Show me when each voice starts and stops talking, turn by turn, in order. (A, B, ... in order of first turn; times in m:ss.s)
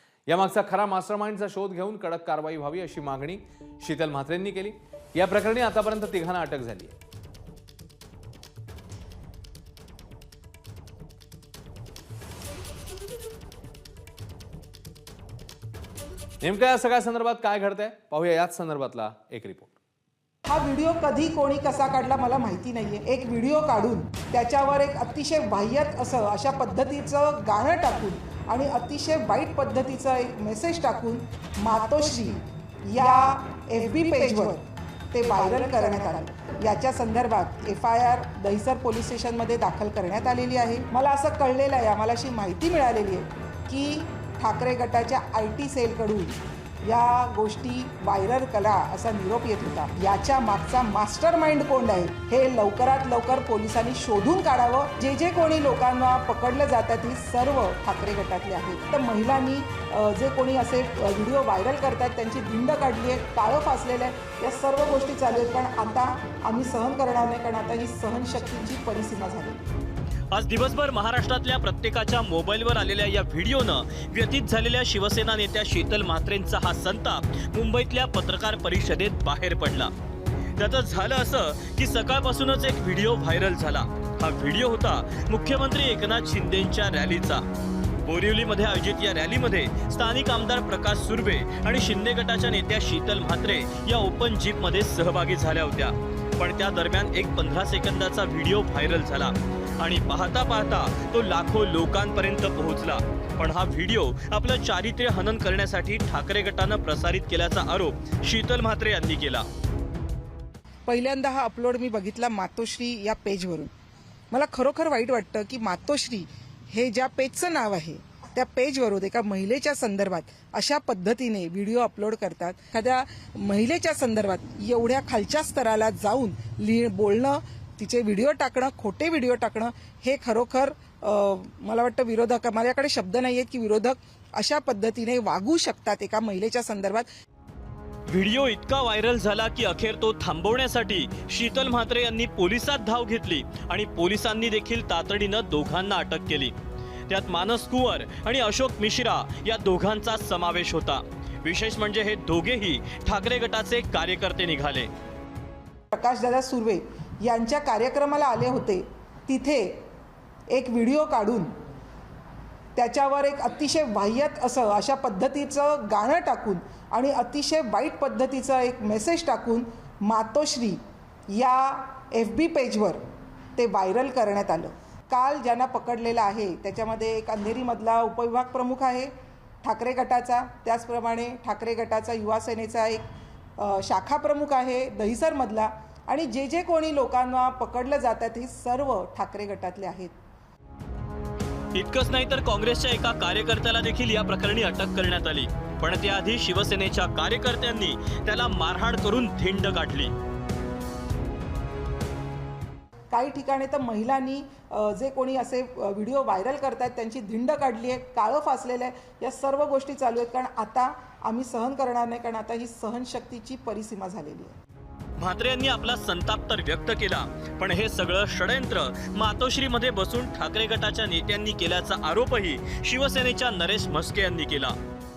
0:00.3-0:07.0 A
0:16.4-0:19.8 A
0:20.4-1:09.7 B
1:10.3-1:19.9 C
1:20.6-1:27.4 C
1:28.0-1:49.4 C
1:50.9-1:53.7 B
1:54.3-2:17.1 B
2:18.1-2:26.5 C
2:27.1-2:34.9 C
2:35.9-2:39.7 B
2:40.5-2:41.5 B
2:42.8-2:50.8 B
2:51.3-2:53.0 B
2:53.6-2:59.1 B
2:59.6-3:03.0 B
3:03.6-3:10.1 B
3:11.7-3:20.1 C
3:23.1-3:34.6 B
3:35.2-3:44.7 C